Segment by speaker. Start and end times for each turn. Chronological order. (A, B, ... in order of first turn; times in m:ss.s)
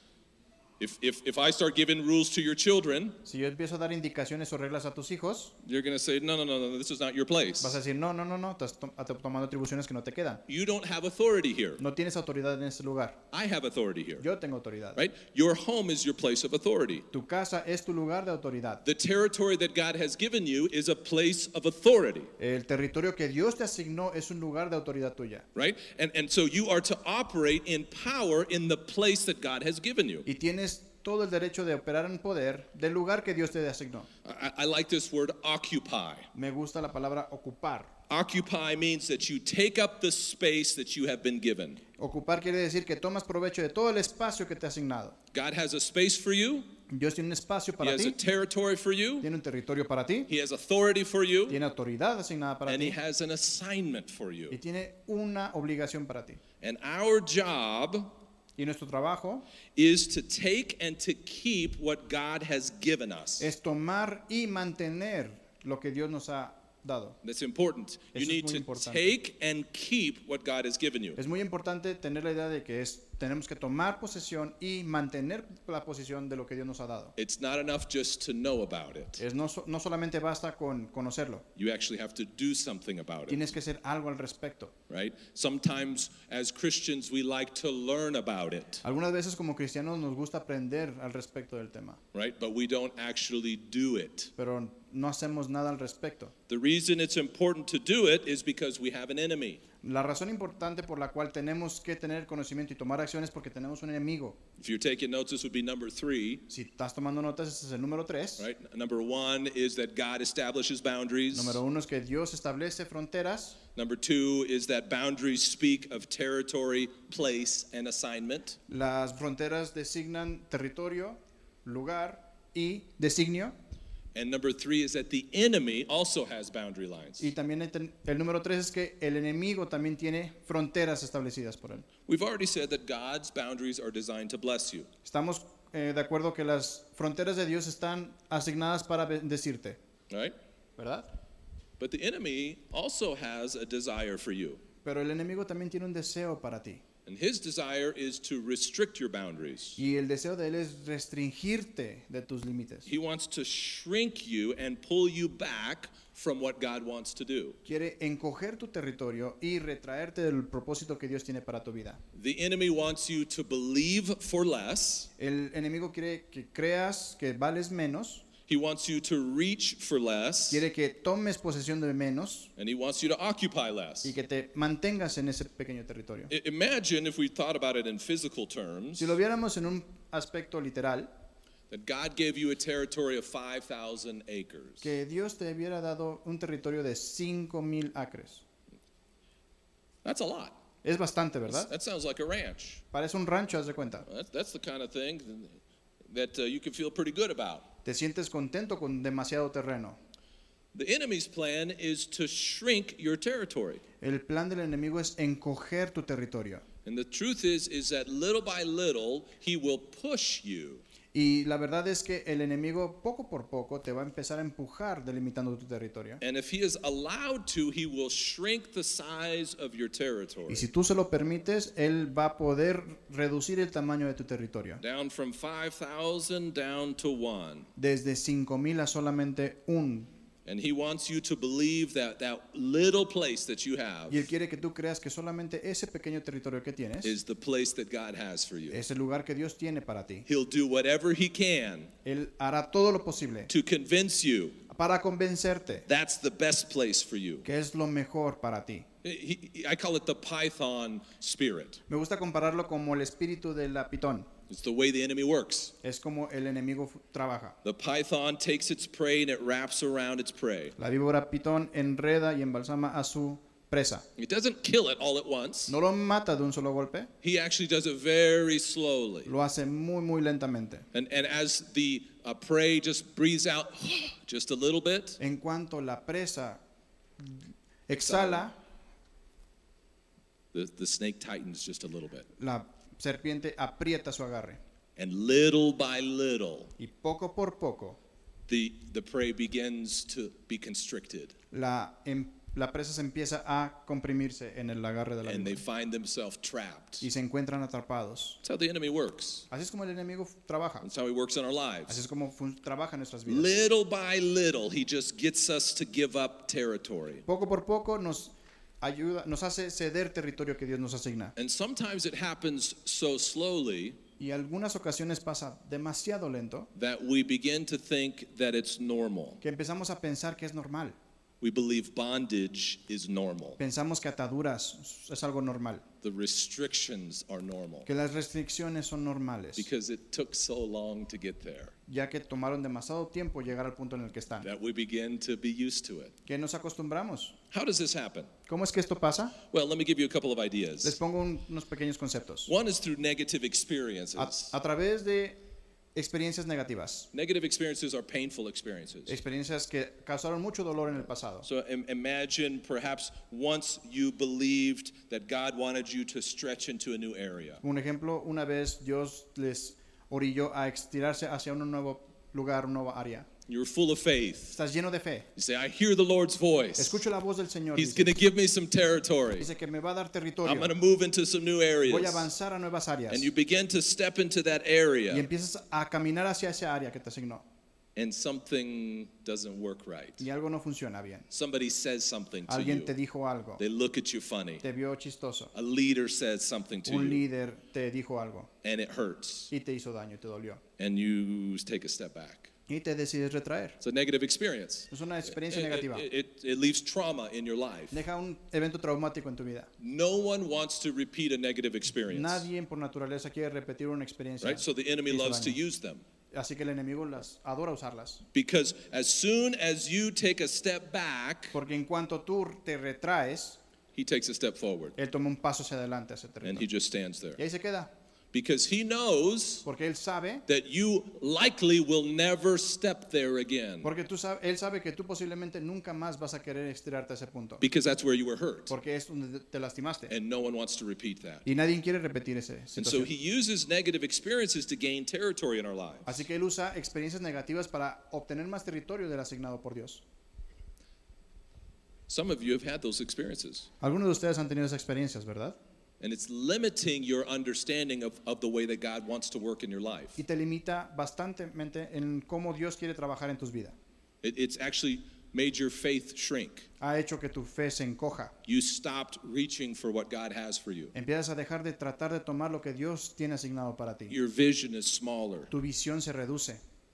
0:00.8-0:03.2 A
0:03.2-0:05.6 B
0:05.6-0:07.8 A
0:07.6-0:10.4 B
0:10.5-0:11.8 A
0:11.8-0:13.2 B
0:13.3-0:14.2 A
0:14.2-0:15.0 B
0:15.0-0:17.1 A
0:17.1-0:18.8 B
0:18.8-0:22.3 A
0:22.4-0:25.5 B
0:25.5-0:30.3 A
0:30.2-0:34.1 B
0:34.2-0:36.3 A
0:36.3-0:37.9 B
0:38.1-0:41.8 A
0:42.0-0:45.2 B
0:45.3-0:46.7 A
0:46.9-0:48.2 B
0:47.8-0:49.3 A
0:49.2-0:50.3 B
0:50.3-0:51.6 A
0:51.5-0:53.0 B
0:52.6-0:54.6 A
0:54.5-0:56.4 B
0:56.6-0:58.1 A
0:58.6-0:59.5 B
0:59.8-1:03.5 A
1:03.4-1:07.2 B
1:07.2-1:11.2 A
1:08.1-1:09.1 B
1:11.2-1:17.1 B
1:17.2-1:19.2 A
1:19.2-1:21.4 B
1:21.6-1:23.4 A
1:23.3-1:24.8 B
1:24.9-1:28.8 A
1:28.8-1:32.0 B
1:32.1-1:34.3 A
1:34.4-1:36.3 B
1:36.5-1:39.6 A
1:39.8-1:44.4 B
1:44.6-1:46.4 A
1:46.5-1:48.5 B
1:48.4-1:51.6 A
1:51.3-1:53.6 B
1:53.8-1:58.6 A
1:58.7-2:03.6 B
2:04.1-2:07.3 A
2:07.2-2:11.9 B
2:12.1-2:14.9 A
2:15.0-2:19.8 B
2:20.1-2:20.4 A
2:20.8-2:21.1 B
2:21.8-2:24.6 A
2:24.8-2:26.8 B
2:27.1-2:29.8 A
2:29.8-2:32.9 B
2:32.9-2:37.6 A
2:37.6-2:42.0 B
2:42.1-2:45.1 A
2:45.2-2:48.2 B
2:48.5-2:50.6 A
2:50.5-2:52.5 B
2:52.6-2:54.1 A
2:54.0-2:56.3 B
2:56.3-2:59.2 A
2:59.0-3:01.1 B
3:01.7-3:04.9 A
3:04.8-3:08.4 B
3:10.0-3:10.6 A
3:10.8-3:11.7 B
3:11.5-3:12.8 A
3:12.9-3:14.1 B
3:14.1-3:17.7 A
3:17.8-3:20.0 B
3:20.7-3:23.8 A
3:24.0-3:26.6 B
3:26.8-3:30.8 A
3:31.1-3:36.2 B
3:36.2-3:40.7 A
3:40.5-3:44.8 B
3:44.8-3:47.7 A
3:47.8-3:50.1 B
3:50.4-3:54.3 A
3:54.1-3:57.2 B
3:57.0-3:58.8 A
3:58.7-4:00.2 B
4:00.2-4:01.9 A
4:02.0-4:03.5 B
4:03.5-4:04.6 A
4:04.7-4:05.9 B
4:05.9-4:07.5 A
4:07.4-4:08.9 B
4:09.0-4:11.8 A
4:11.9-4:14.3 B
4:14.5-4:15.8 A
4:15.8-4:17.6 B
4:17.6-4:20.8 A
4:20.8-4:24.1 B
4:24.2-4:25.8 A
4:25.7-4:27.1 B
4:27.2-4:29.3 A
4:29.2-4:30.9 B
4:30.9-4:35.2 A
4:35.2-4:36.6 B
4:37.2-4:38.6 B
4:38.0-4:38.5 A
4:40.5-4:42.3 A
4:42.4-4:44.6 B
4:45.0-4:46.7 A
4:46.8-4:48.0 B
4:48.5-4:51.4 A
4:51.5-4:55.6 B
4:55.2-4:57.1 A
4:57.0-4:58.4 B
4:58.4-4:59.5 A
4:59.5-5:00.9 B
5:00.8-5:02.0 A
5:01.9-5:03.5 B
5:03.3-5:07.2 A
5:07.3-5:11.4 B
5:11.4-5:14.0 A
5:14.2-5:16.7 B
5:16.8-5:19.4 A
5:19.4-5:21.0 B
5:21.4-5:23.6 A
5:23.6-5:25.8 B
5:26.0-5:27.9 A
5:27.9-5:29.7 B
5:29.6-5:31.8 A
5:31.9-5:34.5 B
5:34.4-5:36.1 A
5:36.2-5:37.4 B
5:37.5-5:38.3 A
5:38.5-5:39.4 B
5:39.5-5:41.0 A
5:40.8-5:42.5 B
5:42.5-5:44.5 A
5:44.2-5:45.4 B
5:46.0-5:47.1 B
5:47.1-5:49.2 A
5:49.1-5:51.5 B
5:51.4-5:57.6 A
5:57.6-6:03.3 B
6:03.5-6:04.6 A
6:04.5-6:05.3 B
6:05.4-6:07.0 A
6:06.8-6:08.2 B
6:07.8-6:09.5 A
6:09.4-6:10.7 B
6:10.4-6:12.3 A
6:11.8-6:13.3 B
6:13.1-6:15.3 A
6:15.1-6:17.5 B
6:18.0-6:20.2 A
6:20.2-6:21.3 B
6:21.3-6:22.9 A
6:22.5-6:23.6 B
6:23.6-6:24.6 A
6:24.6-6:25.5 B
6:25.5-6:27.2 A
6:26.9-6:28.5 B
6:28.6-6:29.5 A
6:29.5-6:30.6 B
6:30.8-6:32.5 A
6:32.7-6:33.8 B
6:33.8-6:38.0 A
6:34.9-6:36.1 B
6:37.9-6:39.7 B
6:39.8-6:42.4 A
6:42.1-6:45.6 B
6:44.4-6:46.0 A
6:46.3-6:48.2 B
6:48.3-6:51.6 A
6:51.5-6:53.6 B
6:53.9-6:55.0 A
6:55.0-6:56.7 B
6:56.4-6:57.4 A
6:57.4-6:57.9 B
6:58.3-6:59.6 A
6:59.6-7:00.4 B
7:00.5-7:03.9 A
7:03.8-7:07.6 B
7:07.6-7:08.7 A
7:08.7-7:10.1 B
7:10.1-7:11.4 A
7:11.4-7:13.1 B
7:12.8-7:16.2 A
7:16.1-7:20.0 B
7:22.1-7:23.7 A
7:23.8-7:25.6 B
7:26.0-7:30.2 A
7:30.2-7:33.8 B
7:34.2-7:36.7 A
7:36.8-7:38.3 B
7:38.4-7:40.9 A
7:40.9-7:44.2 B
7:44.1-7:45.5 A
7:45.5-7:46.6 B